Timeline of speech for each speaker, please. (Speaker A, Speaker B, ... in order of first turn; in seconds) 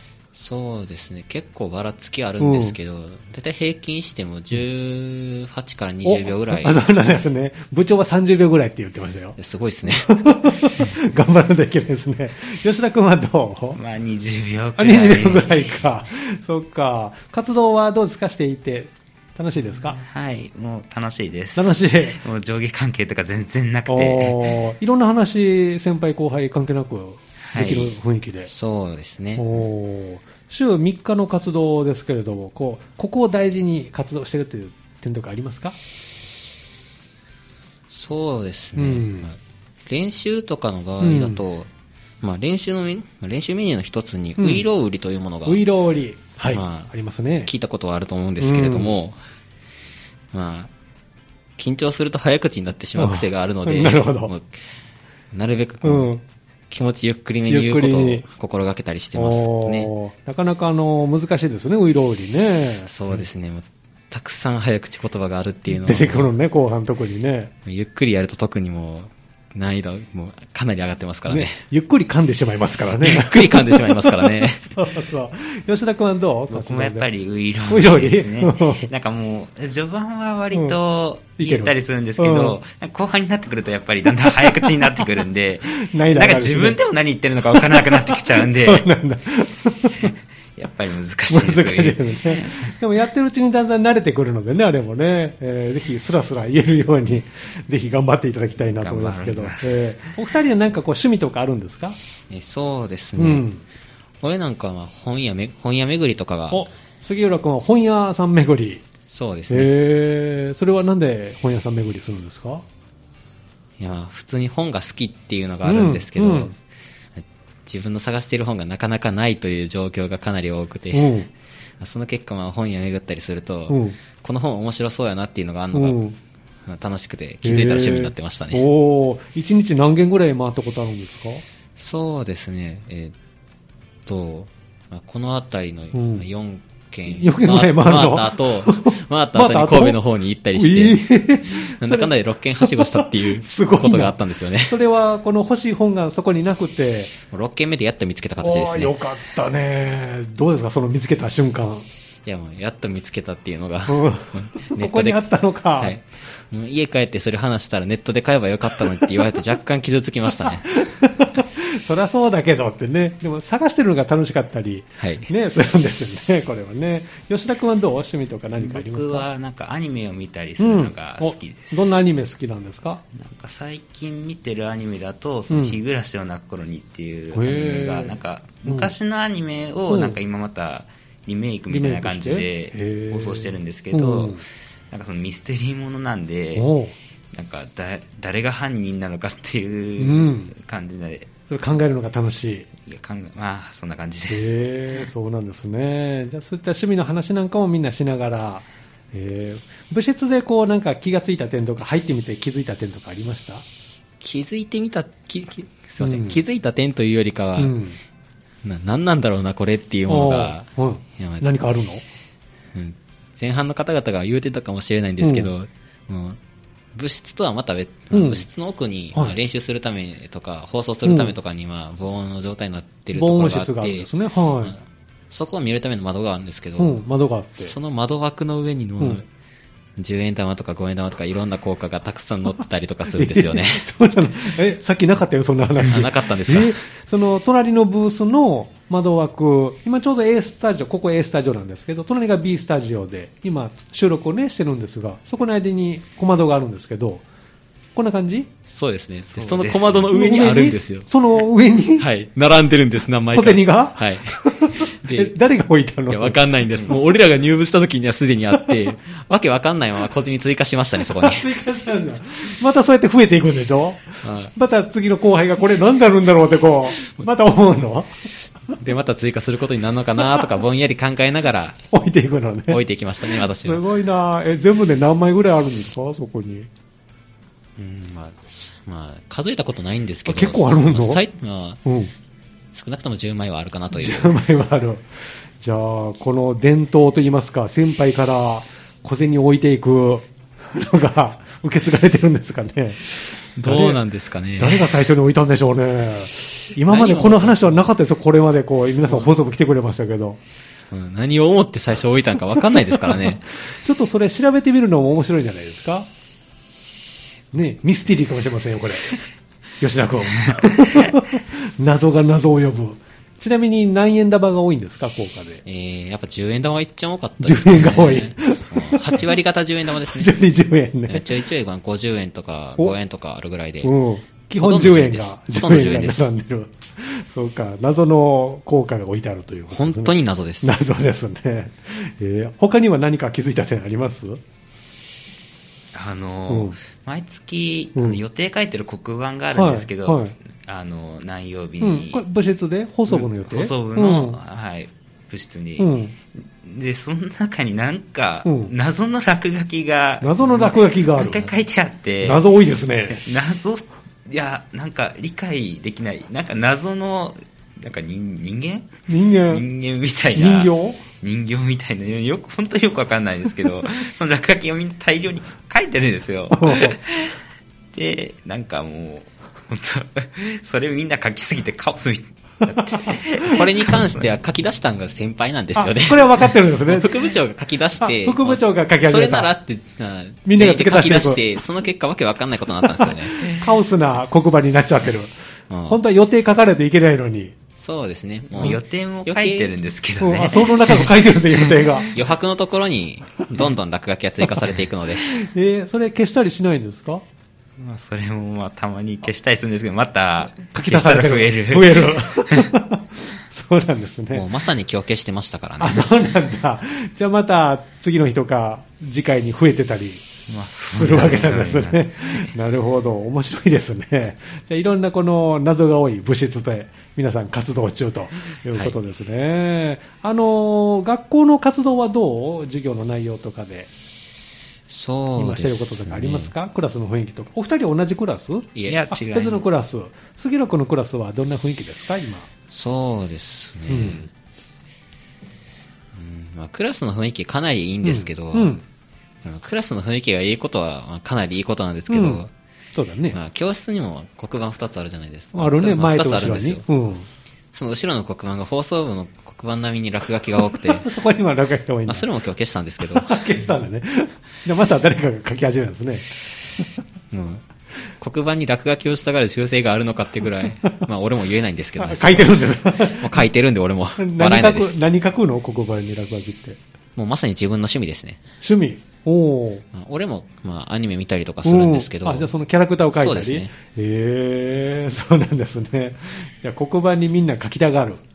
Speaker A: 0.3-6.8, 9.4-10.2, 28.5-29.4, 37.9-41.7, 42.2-45.6, 46.5-46.9, 47.4-49.2, 50.3-50.7, 51.6-54.5, 55.3-56.1, 56.7-59.9, 62.9-66.3, 67.6-71.6, 73.0-74.8, 102.3-103.5, 104.2-106.6, 109.1-109.7, 113.8-116.5, 117.2-121.2, 121.8-126.0, 126.6-128.6, 131.8-133.1, 134.1-144.8, 147.3-149.0, 152.2-155.2, 155.8-160.7, 165.0-165.3, 204.2-207.8, 208.6-211.4, 212.7-216.4, 216.9-224.1, 225.3-227.0, 227.6-229.2, 230.0-233.8, 235.8-236.8, 248.7-251.1, 252.0-255.3, 256.1-261.5, 264.2-264.5, 268.8-271.8, 272.7-273.8, 277.8-281.8, 282.7-284.4, 293.6-295.0, 296.9-297.9, 299.1-299.3, 300.9-303.5, 315.6-320.3, 321.1-323.9, 324.6-326.4, 329.7-330.8, 373.5-383.4, 385.7-386.0, 387.8-389.7, 392.1-395.3, 404.3-406.2, 424.9-426.5, 428.7-429.0, 432.7-434.3, 436.1-438.8, 439.4-442.5, 443.3-446.8, 447.7-451.1, 452.1-453.4, 457.3-457.6, 458.2-465.1, 467.1-468.4, 469.9-472.5, 473.1-473.7
Speaker B: 2.4-2.8, 6.0-13.8, 14.8-20.0, 21.5-22.2, 23.9-28.5, 29.4-35.8, 38.8-39.3, 41.0-41.4, 44.4-44.7, 45.4-47.5, 48.4-48.9, 53.0-54.3, 55.8-56.2, 57.5-58.2, 59.1-63.2, 65.7-67.5, 71.3-77.1, 77.7-78.9, 81.4-82.6, 84.2-85.0, 85.7-86.8, 87.5-90.1, 91.3-102.0, 103.2-103.6, 106.5-108.8, 109.5-112.6, 115.6-116.5, 120.9-121.3, 123.7-124.0, 125.7-126.2, 127.4-131.4, 135.9-136.2, 137.1-140.0, 140.5-147.2, 148.4-151.8, 153.9-156.0, 159.0-159.2, 160.3-169.3, 170.6-173.0, 175.5-175.8, 177.3-178.9, 179.9-180.2, 181.7-184.4, 186.5-186.9, 190.0-190.5, 191.5-192.7, 194.3-203.6, 206.0-206.4, 207.6-208.0, 210.1-212.0, 215.2-215.5, 218.1-218.4, 221.0-221.3, 223.1-224.8, 226.8-227.8, 233.1-247.2, 247.9-248.5, 250.1-252.1, 253.3-256.5, 261.1-268.1, 270.2-270.5, 271.9-276.7, 280.2-281.2, 281.8-282.1, 283.9-285.1, 285.6-294.0, 294.6-300.4, 302.9-306.1, 307.5-309.2, 309.8-315.6, 317.4-319.3, 320.0-321.4, 323.8-334.4, 336.5-336.8, 339.5-340.3, 341.8-344.4, 345.8-346.1, 348.4-348.7, 350.2-351.5, 352.2-353.2, 359.1-359.6, 360.3-361.0, 366.5-367.0, 372.6-373.6, 375.8-377.2, 378.0-379.5, 380.4-381.5, 382.9-385.3, 385.8-387.5, 390.2-392.1, 395.3-397.2, 400.7-404.5, 405.8-410.2, 410.9-423.9, 425.4-432.5, 433.9-434.3, 438.0-438.8, 442.1-443.4, 445.5-447.3, 450.6-452.2, 453.1-456.4, 462.0-463.4, 464.2-466.8, 468.6-469.8, 471.6-478.2
Speaker C: 13.7-15.8, 20.0-24.6, 27.5-27.9, 76.5-88.9, 90.0-92.7, 98.7-100.3, 168.6-172.0, 173.1-186.7, 187.3-191.3, 192.8-194.5, 249.3-250.1, 310.4-311.1, 335.9-342.2, 343.1-352.4, 353.1-358.9, 359.4-367.4, 367.9-374.2, 388.6-392.1, 397.8-402.7, 410.5-412.5, 428.9-429.6